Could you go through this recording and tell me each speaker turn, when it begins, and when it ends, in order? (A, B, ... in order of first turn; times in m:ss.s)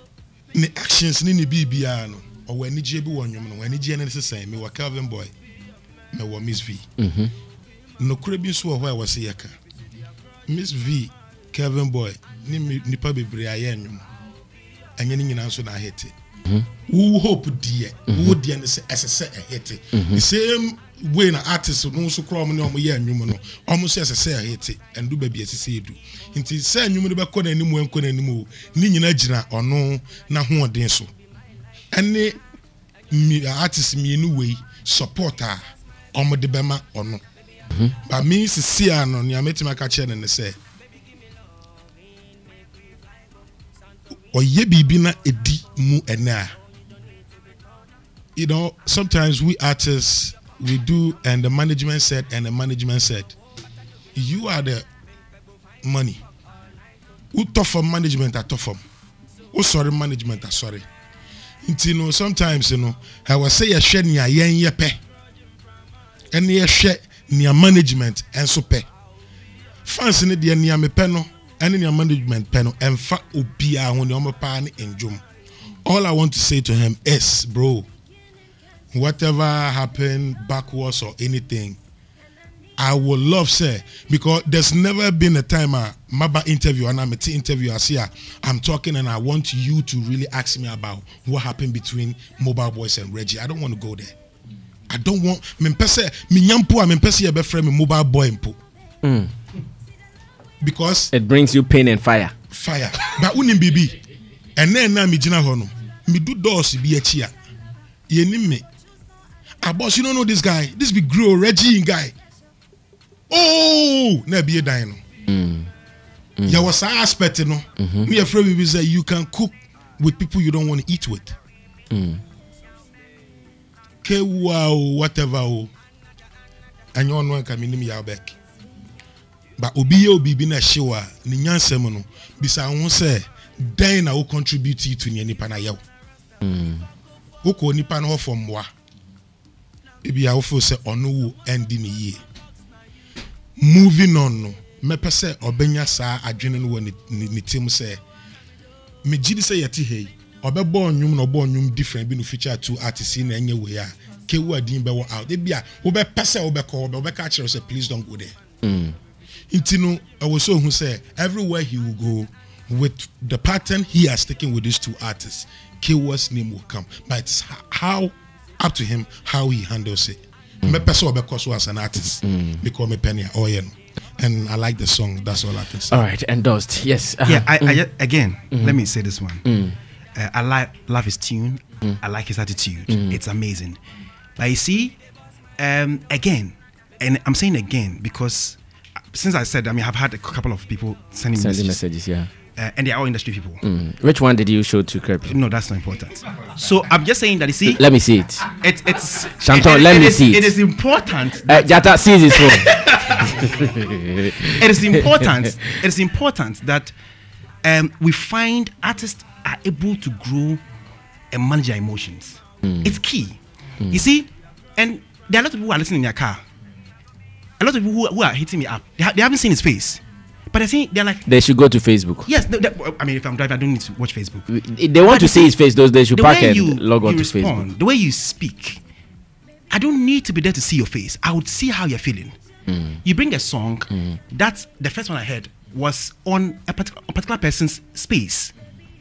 0:00.5-0:05.3 A
0:06.1-0:06.9 A
0:07.0-0:07.3 B
0:08.0-0:09.5 A
0:10.5-0:14.0 A
0:15.0-0:16.1 A
0:16.9-0:31.1 A
0:18.1-0:18.4 B
0:19.9-0:20.2 B
0:31.9-0:32.4 A
0:33.1-0:35.6 A
0:36.1-0:37.2 A
0:38.0-0:40.6 A
0:44.3-0:46.5 A
0:48.4-0:53.3 A
0:54.1-0:54.8 A
0:55.8-0:56.2 A
0:57.3-0:58.8 A
0:59.5-1:00.8 A
1:01.6-1:05.0 A
1:06.3-1:08.9 A
1:09.8-1:15.2 A
1:15.8-1:17.9 A
1:18.9-1:21.8 A
1:22.8-1:34.1 A
1:34.9-1:38.6 A
1:39.0-1:39.3 B
1:40.6-1:41.1 A
1:41.1-1:42.3 B
1:42.5-1:44.0 A
1:44.6-1:47.3 A
1:48.1-1:48.6 A
1:49.6-1:52.1 A
1:53.3-1:55.0 A
1:55.3-1:55.7 B
1:56.4-2:01.4 A
1:57.8-1:58.1 B
2:01.9-2:02.2 B
2:04.0-2:05.7 A
2:06.9-2:08.3 A
2:09.6-2:15.8 A
2:16.4-2:16.8 B
2:17.4-2:18.7 A
2:20.0-2:22.2 A
2:23.6-2:28.0 A
2:29.0-2:38.3 A
2:38.6-2:38.9 B
2:39.5-2:56.0 A
2:52.2-2:52.6 B
2:55.9-2:57.8 B
2:57.2-2:59.4 C
2:59.4-2:59.8 B
3:00.1-3:03.8 C
3:04.4-3:05.0 C
3:05.6-3:08.6 C
3:09.1-3:11.8 C
3:11.4-3:12.3 B
3:12.6-3:13.6 C
3:13.6-3:15.4 B
3:15.2-3:17.8 C
3:17.7-3:18.4 B
3:18.5-3:23.7 C
3:19.4-3:20.5 B
3:21.4-3:24.6 B
3:24.4-3:26.9 C
3:27.6-3:30.6 C
3:31.3-3:33.4 C
3:32.6-3:32.9 B
3:33.9-3:36.4 C
3:37.6-3:40.0 C
3:40.5-3:41.2 C
3:41.2-3:42.3 B
3:42.2-3:44.5 C
3:44.5-3:47.6 B
3:45.0-3:45.6 C
3:46.1-3:48.8 C
3:49.7-3:52.4 C
3:52.7-3:53.0 B
3:53.0-3:58.5 C